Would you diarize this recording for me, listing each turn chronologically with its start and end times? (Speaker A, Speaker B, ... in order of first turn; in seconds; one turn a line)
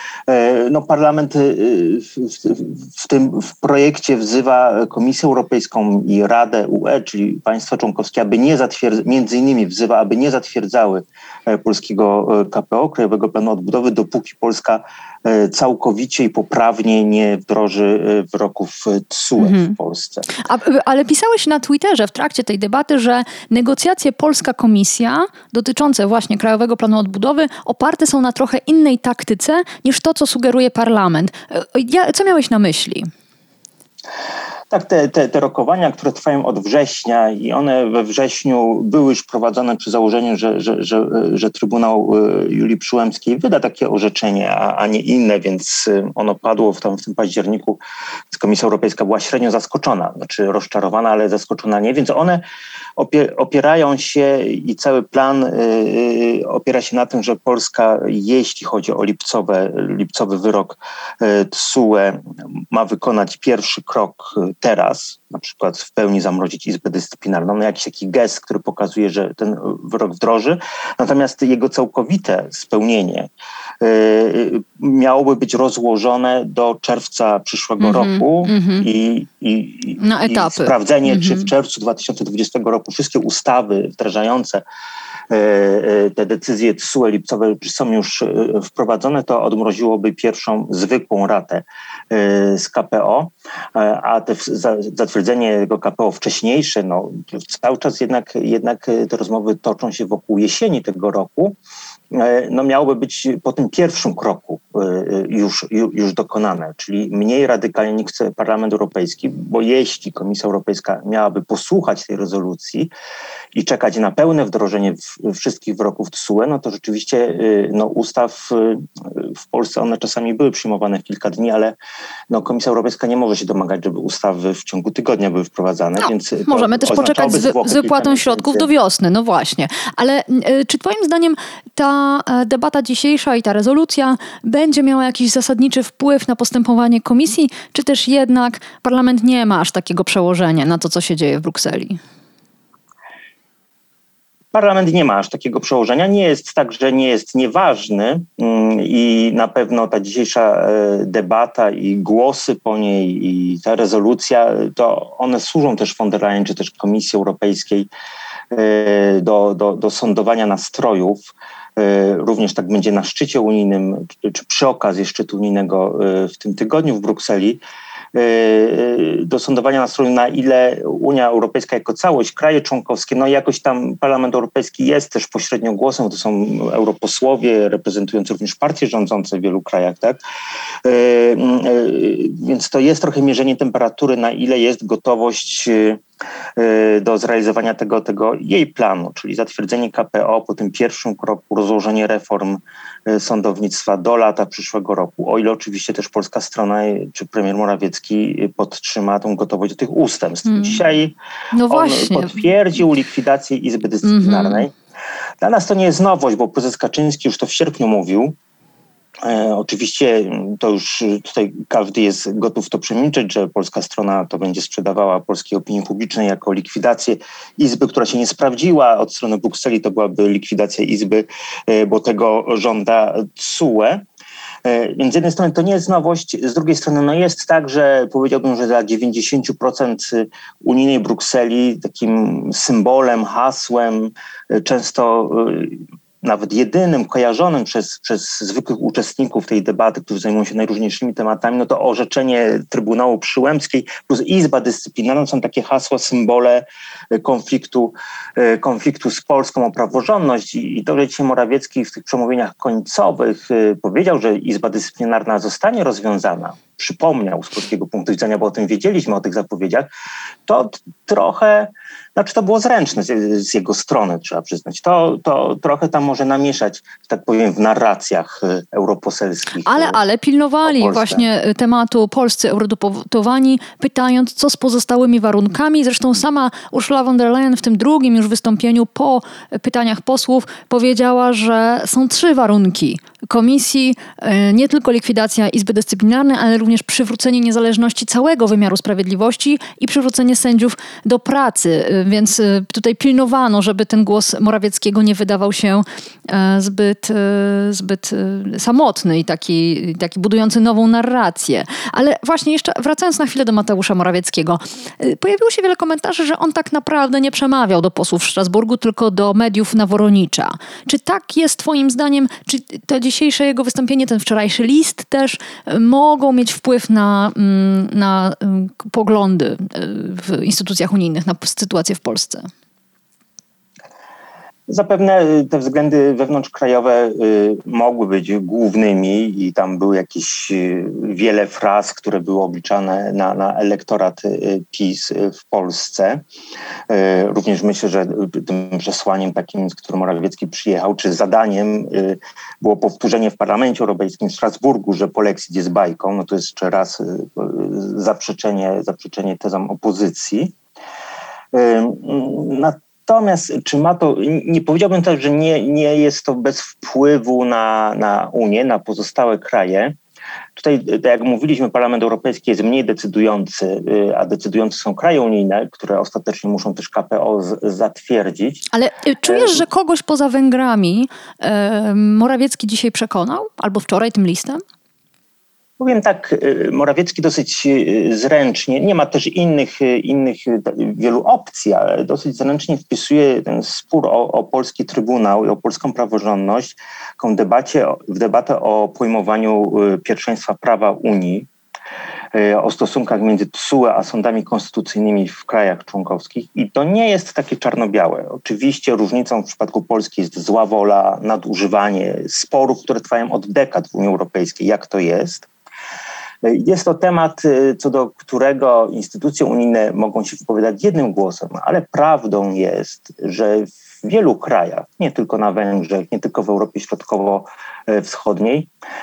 Speaker A: 0.3-20.3
Speaker B: 19.4-19.7
Speaker B: 20.4-33.1
Speaker A: 34.7-52.4
Speaker A: 53.0-84.6
Speaker B: 77.8-78.9
Speaker B: 80.0-81.5
Speaker A: 85.3-101.6
Speaker A: 102.1-112.9
Speaker A: 113.5-121.8
Speaker A: 122.3-128.7
Speaker B: 126.0-142.0
Speaker A: 144.5-157.9
Speaker A: 158.5-161.2
Speaker A: 161.8-167.6
Speaker A: 168.1-180.2
Speaker A: 180.8-186.0
Speaker A: 186.6-201.2
Speaker B: 200.4-200.8
Speaker B: 201.5-202.4
Speaker A: 201.7-204.7
Speaker B: 204.0-204.7
Speaker A: 205.4-208.4
Speaker A: 209.2-224.0
Speaker A: 224.6-259.9
Speaker A: 260.5-270.0
Speaker B: 269.6-322.5
Speaker A: 270.6-271.3
Speaker A: 324.7-336.2
Speaker A: 336.9-350.5
Speaker A: 351.5-360.0
Speaker A: 360.5-368.7
Speaker B: 368.7-374.6
Speaker A: 369.2-369.6
Speaker A: 375.8-391.5
Speaker A: 392.3-405.5
Speaker A: 406.4-418.7